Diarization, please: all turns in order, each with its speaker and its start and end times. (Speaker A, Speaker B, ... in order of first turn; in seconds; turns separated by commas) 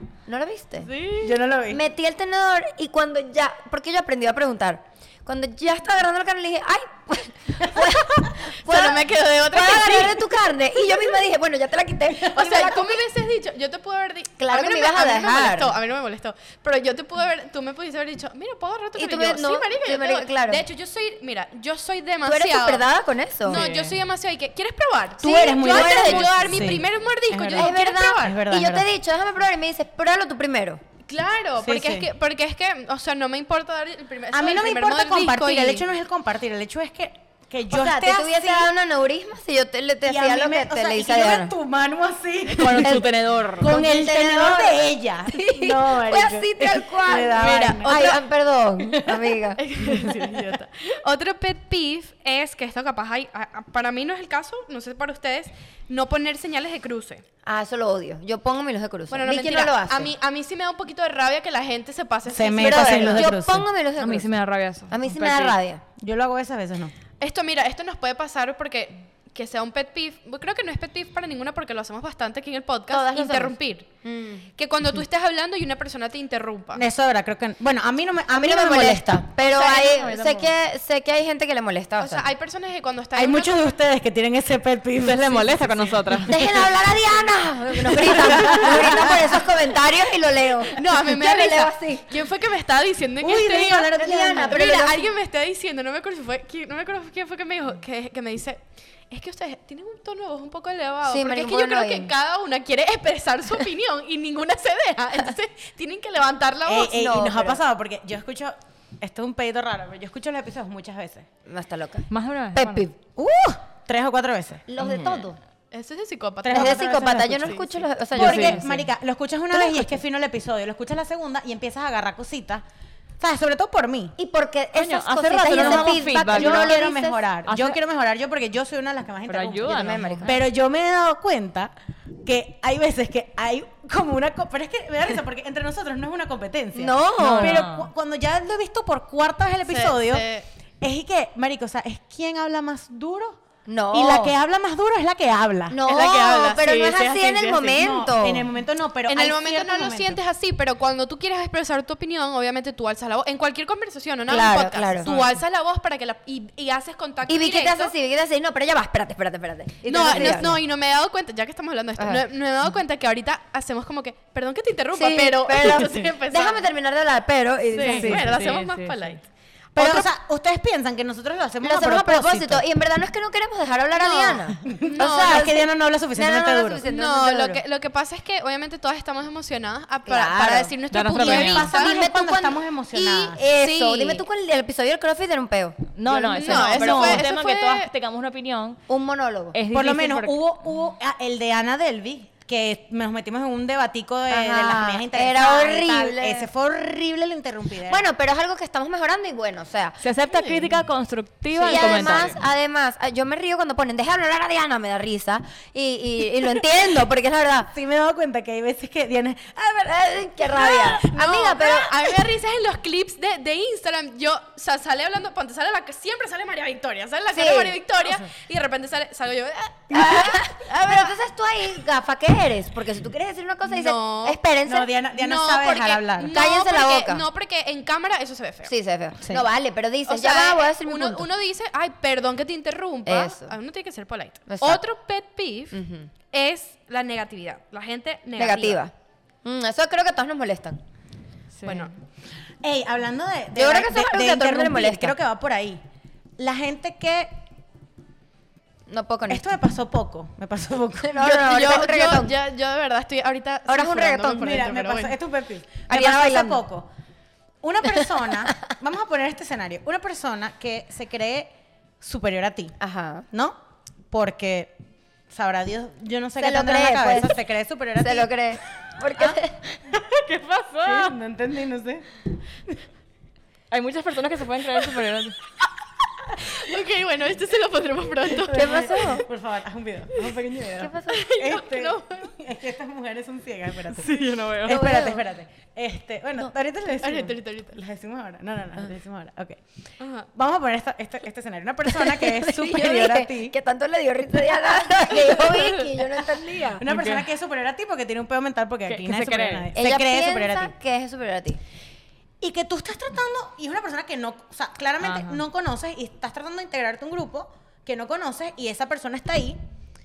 Speaker A: 0.3-0.9, Speaker B: 0.9-1.3, Speaker C: 1.2-1.8, Speaker A: 1.7-13.0, Speaker B: 8.5-10.3, Speaker B: 12.3-22.9, Speaker A: 14.4-15.8, Speaker A: 19.0-20.6, Speaker A: 22.2-23.6, Speaker B: 23.5-28.4, Speaker D: 23.5-24.0, Speaker C: 25.2-28.9, Speaker A: 25.2-26.3, Speaker A: 27.6-30.8, Speaker B: 31.1-35.9, Speaker C: 31.6-32.1, Speaker C: 34.3-38.7, Speaker A: 37.7-41.5, Speaker C: 40.1-48.1, Speaker D: 42.6-43.7, Speaker A: 42.8-43.1, Speaker A: 43.6-49.6, Speaker B: 47.3-48.2, Speaker C: 48.9-49.3, Speaker B: 49.6-57.2, Speaker A: 57.5-60.1, Speaker B: 59.1-63.3, Speaker C: 62.3-63.7, Speaker A: 62.6-64.3, Speaker D: 64.0-65.6, Speaker A: 64.9-65.8, Speaker C: 66.0-66.9, Speaker B: 67.2-73.9, Speaker A: 72.9-74.5, Speaker B: 74.6-76.8, Speaker C: 76.7-79.3, Speaker A: 78.3-82.3, Speaker B: 79.4-80.5, Speaker D: 80.0-80.3, Speaker B: 82.0-83.7, Speaker C: 83.2-86.8, Speaker D: 85.0-86.3, Speaker A: 86.3-92.1, Speaker C: 87.8-89.5, Speaker B: 90.7-107.1, Speaker C: 93.2-94.6, Speaker A: 94.0-95.1, Speaker A: 101.1-102.1, Speaker C: 106.7-111.3, Speaker A: 106.9-107.6, Speaker A: 111.5-113.0, Speaker D: 112.1-112.9, Speaker C: 113.2-114.7, Speaker A: 114.7-115.4, Speaker D: 114.8-115.2, Speaker B: 115.7-117.7, Speaker C: 116.4-122.6, Speaker A: 116.5-118.7, Speaker D: 118.1-118.8, Speaker A: 119.5-119.9, Speaker C: 123.2-124.2, Speaker A: 124.2-127.2, Speaker D: 124.7-126.8, Speaker C: 125.5-131.7, Speaker D: 127.5-127.8, Speaker D: 129.3-130.4, Speaker A: 129.7-130.4, Speaker C: 132.2-140.3, Speaker A: 136.8-137.6, Speaker D: 137.2-137.9, Speaker B: 139.7-140.5, Speaker C: 140.8-143.4, Speaker A: 143.7-144.3, Speaker C: 143.9-145.8, Speaker A: 145.7-148.5, Speaker B: 145.8-147.8, Speaker C: 147.7-150.2, Speaker B: 149.1-157.9, Speaker A: 154.3-155.1, Speaker C: 155.1-155.4, Speaker A: 157.3-160.6, Speaker B: 159.9-166.7, Speaker C: 160.1-160.4, Speaker A: 164.9-168.3, Speaker B: 167.7-170.1, Speaker D: 167.8-169.2, Speaker C: 169.8-172.6, Speaker A: 171.6-177.6, Speaker B: 173.9-175.5, Speaker C: 174.7-176.8, Speaker B: 176.8-181.9, Speaker A: 180.1-180.8, Speaker D: 180.9-181.7, Speaker C: 181.2-183.4, Speaker A: 181.5-185.8, Speaker B: 183.5-184.2, Speaker D: 186.0-188.8, Speaker B: 186.1-187.9, Speaker C: 186.6-187.2, Speaker A: 188.9-189.6, Speaker D: 189.5-190.4, Speaker C: 189.7-198.1, Speaker A: 194.3-196.5, Speaker A: 197.9-200.0, Speaker D: 200.0-202.4, Speaker A: 201.6-207.7, Speaker C: 201.9-202.2, Speaker C: 207.7-210.2, Speaker A: 209.9-212.1, Speaker B: 210.6-221.2, Speaker A: 217.3-217.8, Speaker A: 219.9-224.9, Speaker B: 223.7-224.4, Speaker C: 224.7-226.4, Speaker B: 225.1-228.7, Speaker A: 226.3-227.2, Speaker A: 228.7-231.3, Speaker B: 230.1-235.8, Speaker A: 233.1-233.5, Speaker A: 234.5-234.8, Speaker A: 235.7-236.1, Speaker B: 236.3-238.8, Speaker A: 238.4-238.9, Speaker A: 239.4-240.8, Speaker D: 241.6-241.9, Speaker B: 241.7-241.9, Speaker C: 242.6-245.8, Speaker A: 243.6-245.2, Speaker C: 246.4-247.4, Speaker A: 248.9-249.4, Speaker C: 249.3-251.3, Speaker A: 251.0-252.4, Speaker B: 251.2-255.2, Speaker A: 253.7-254.7, Speaker C: 254.4-256.9, Speaker A: 255.9-256.6, Speaker C: 257.6-262.8, Speaker A: 262.8-263.3, Speaker C: 263.3-263.6, Speaker C: 264.1-264.8, Speaker C: 265.3-268.3, Speaker A: 266.4-267.3, Speaker A: 268.0-269.8, Speaker D: 269.9-271.2, Speaker C: 270.8-272.1, Speaker D: 273.7-275.4, Speaker B: 276.4-279.1, Speaker C: 278.4-289.6, Speaker A: 278.5-279.3, Speaker A: 280.8-281.3, Speaker B: 281.1-282.3, Speaker D: 283.9-284.9, Speaker A: 284.7-285.2, Speaker B: 287.0-287.8, Speaker B: 290.0-290.3, Speaker C: 290.3-293.5, Speaker A: 291.9-296.9, Speaker B: 294.9-296.0, Speaker C: 296.8-300.7, Speaker D: 296.8-297.3, Speaker D: 298.9-299.7, Speaker A: 299.8-301.6, Speaker C: 302.4-309.6, Speaker D: 305.0-305.4